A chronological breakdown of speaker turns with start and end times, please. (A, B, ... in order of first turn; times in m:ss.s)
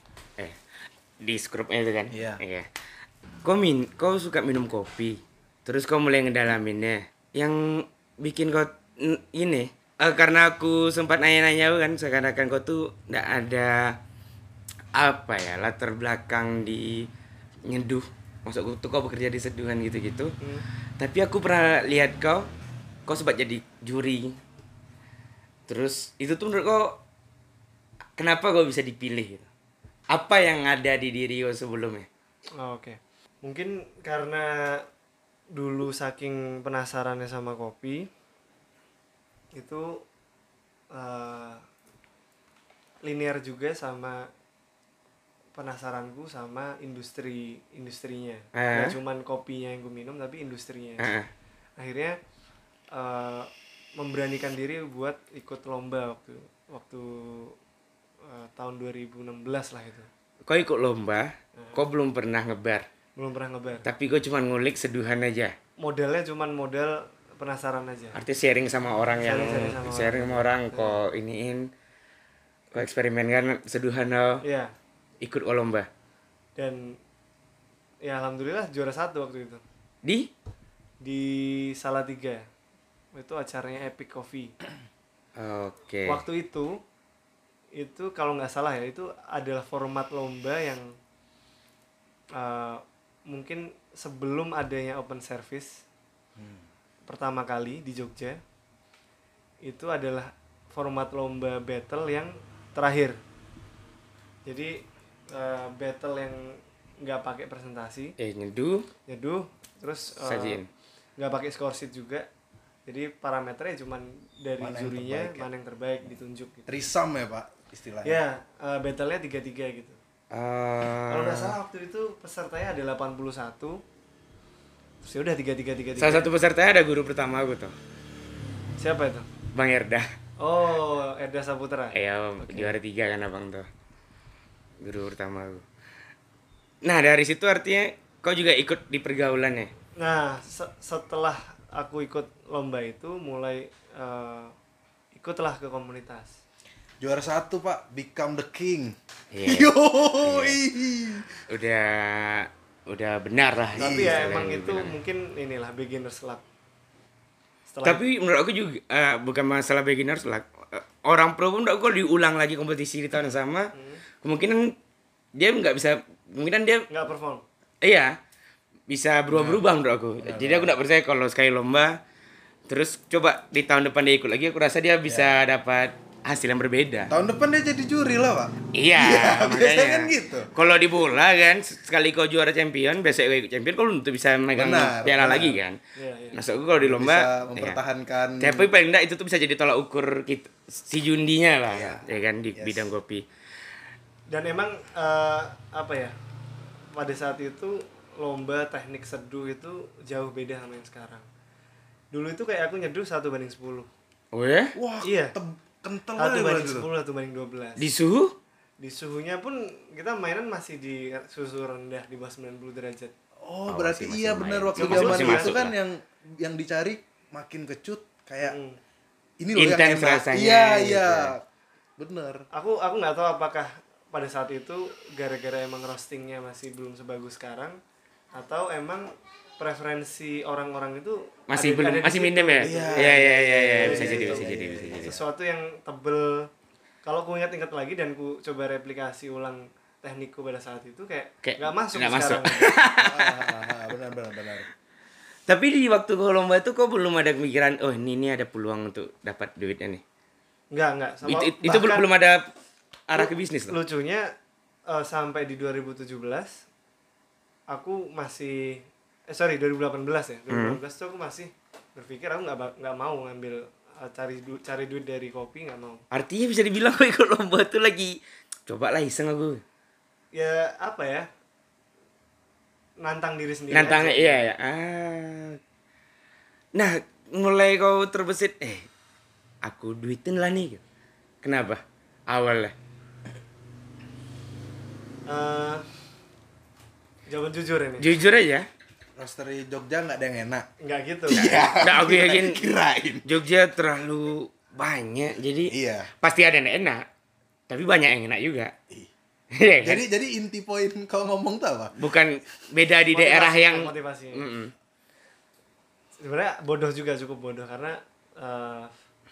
0:01.2-0:02.7 A
0:02.1-0:02.4 B
0:03.4-0:14.0 A
0:15.0-0:17.1 A
0:17.7-0:20.4 A
0:21.0-0:22.5 A
0:23.1-0:24.4 A
0:25.7-0:26.9 A
0:28.2-0:29.5 A
0:30.1-0:32.1 A
0:32.6-0:34.8 C
0:35.5-0:38.1 C
0:39.6-0:40.0 C
0:40.9-0:41.6 C
0:43.0-0:44.3 C
0:45.6-0:51.1 C
0:48.6-0:49.0 A
0:51.0-0:51.3 A
0:51.8-0:52.2 C
0:52.9-0:57.6 C
0:58.3-1:00.1 C
1:00.5-1:02.9 A
1:01.6-1:01.8 C
1:03.2-1:03.8 C
1:03.9-1:05.5 A
1:05.8-1:08.2 C
1:08.2-1:11.7 A
1:09.2-1:11.0 C
1:12.7-1:14.4 A
1:14.4-1:14.7 C
1:15.2-1:15.9 A
1:16.6-1:17.0 C
1:18.0-1:19.6 C
1:20.0-1:20.3 A
1:21.0-1:22.4 C
1:23.2-1:24.5 C
1:25.4-1:26.2 A
1:26.1-1:26.8 C
1:27.8-1:30.9 C
1:32.4-1:35.9 C
1:37.1-1:38.4 C
1:39.6-1:43.2 C
1:44.5-1:48.2 C
1:48.2-1:48.9 A
1:49.1-1:50.6 C
1:50.2-1:50.7 A
1:51.2-1:52.3 C
1:52.9-1:56.7 C
1:54.6-1:55.5 B
1:56.7-1:58.2 B
1:58.0-2:00.0 C
2:00.3-2:01.6 A
2:01.1-2:03.8 C
2:05.0-2:06.3 C
2:06.0-2:07.7 A
2:08.8-2:09.3 C
2:09.5-2:10.1 A
2:10.4-2:12.8 C
2:11.9-2:13.7 A
2:14.8-2:15.6 A
2:16.8-2:19.7 A
2:20.0-2:24.5 C
2:25.2-2:26.4 C
2:27.0-2:31.3 B
2:29.3-2:30.6 A
2:31.5-2:34.9 A
2:33.8-2:34.3 B
2:33.8-2:36.4 C
2:37.7-2:38.0 C
2:37.8-2:43.7 A
2:43.7-2:44.0 C
2:44.2-2:44.7 A
2:45.4-2:46.9 A
2:46.9-2:47.4 C
2:47.8-2:48.1 A
2:48.9-2:51.9 A
2:49.3-2:49.6 B
2:50.2-2:50.8 B
2:52.7-2:57.1 A
2:55.1-2:55.4 B
2:57.1-3:00.5 B
2:58.7-3:05.8 A
3:04.6-3:05.6 B
3:06.0-3:06.4 C
3:06.3-3:07.8 A
3:06.8-3:08.7 B
3:08.4-3:13.2 A
3:11.7-3:12.9 B
3:14.3-3:16.1 C
3:17.0-3:21.3 C
3:22.1-3:23.9 C
3:24.3-3:24.7 A
3:24.8-3:26.9 B
3:25.0-3:25.4 C
3:26.2-3:27.9 C
3:27.8-3:28.4 A
3:28.8-3:33.1 C
3:33.4-3:38.6 B
3:33.7-3:35.8 A
3:34.8-3:35.6 C
3:38.4-3:38.8 C
3:39.4-3:41.4 B
3:39.6-3:41.3 A
3:42.0-3:42.4 B
3:42.5-3:47.8 C
3:48.4-3:53.2 C
3:51.5-3:55.2 A
3:52.6-3:55.2 B
3:53.8-3:56.5 C
3:57.0-4:02.8 C
4:01.4-4:03.9 A
4:03.0-4:04.7 B
4:05.5-4:10.0 A
4:10.7-4:12.1 C
4:11.2-4:12.5 A
4:13.1-4:13.8 A
4:13.2-4:14.2 C
4:14.9-4:16.6 C
4:17.7-4:26.0 C
4:20.5-4:20.8 A
4:26.1-4:29.6 A
4:30.3-4:31.3 C
4:33.0-4:34.5 C
4:33.7-4:35.6 A
4:36.8-4:38.9 A
4:39.6-4:40.8 A
4:41.4-4:42.7 A
4:45.3-4:45.8 C
4:47.3-4:48.1 C
4:48.0-4:48.7 A
4:49.2-4:50.7 B
4:50.8-4:51.5 C
4:51.3-4:53.3 B
4:51.3-4:52.7 A
4:53.2-4:57.0 A
4:55.7-4:56.1 B
4:57.7-4:58.7 A
4:59.6-5:00.1 A
4:59.8-5:02.0 B
5:02.0-5:04.7 A
5:03.1-5:04.5 C
5:06.2-5:08.9 C